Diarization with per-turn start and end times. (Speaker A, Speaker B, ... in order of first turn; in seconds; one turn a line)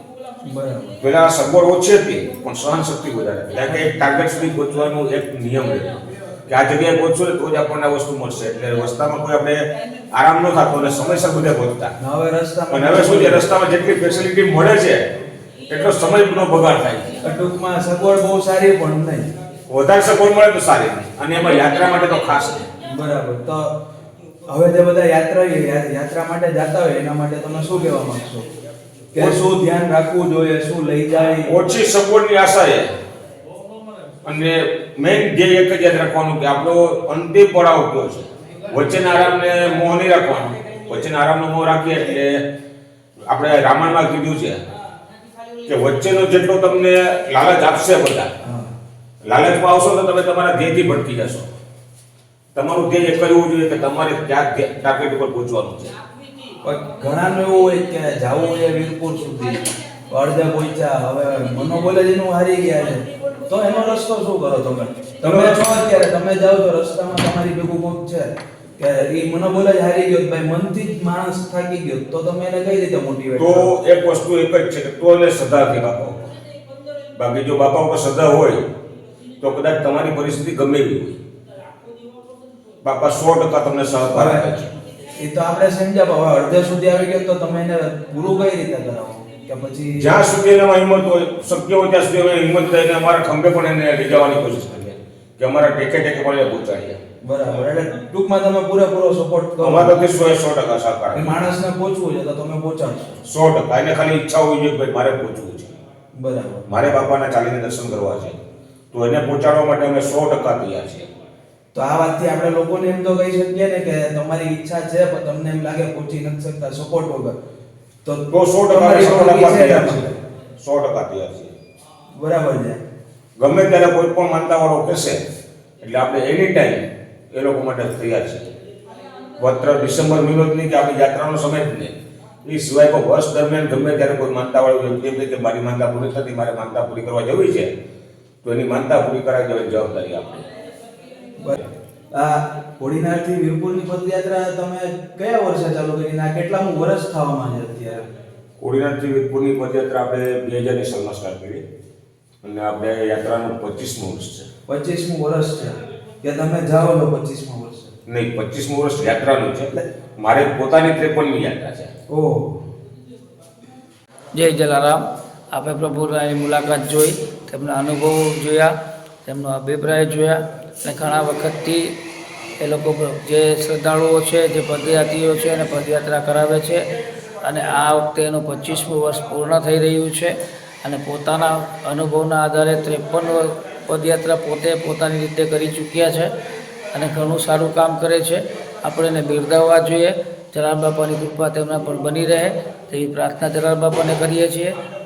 Speaker A: 0.5-0.9
Speaker B: 1.0-11.9
Speaker A: 12.0-13.4
Speaker B: 12.7-15.1
Speaker B: 15.7-17.2
Speaker A: 17.2-19.3
Speaker B: 19.7-22.7
Speaker A: 22.9-23.7
Speaker A: 24.5-28.4
Speaker A: 29.1-31.5
Speaker B: 31.4-32.9
Speaker B: 34.2-42.5
Speaker B: 43.2-44.6
Speaker B: 45.6-48.3
Speaker A: 48.4-48.7
Speaker B: 49.2-51.5
Speaker B: 52.5-55.9
Speaker A: 56.6-73.7
Speaker B: 65.2-65.7
Speaker B: 73.4-76.3
Speaker B: 77.2-78.6
Speaker B: 79.4-81.2
Speaker B: 82.8-84.7
Speaker A: 84.1-84.5
Speaker A: 85.2-90.2
Speaker B: 90.0-97.0
Speaker A: 97.2-99.9
Speaker B: 99.6-101.3
Speaker A: 101.1-103.2
Speaker B: 103.2-105.7
Speaker A: 106.1-106.7
Speaker B: 106.7-108.4
Speaker B: 108.9-111.1
Speaker A: 111.7-117.3
Speaker A: 118.0-120.2
Speaker B: 118.3-121.5
Speaker A: 122.2-122.8
Speaker B: 123.4-125.2
Speaker B: 125.8-128.5
Speaker B: 129.4-137.7
Speaker B: 138.4-140.4
Speaker A: 142.1-148.1
Speaker B: 148.6-151.6
Speaker B: 152.4-154.5
Speaker A: 154.7-157.9
Speaker B: 158.1-161.9
Speaker A: 162.1-162.6
Speaker C: 164.3-168.7
Speaker C: 169.2-171.9
Speaker C: 172.6-176.8
Speaker C: 177.4-186.3
Speaker C: 186.9-194.8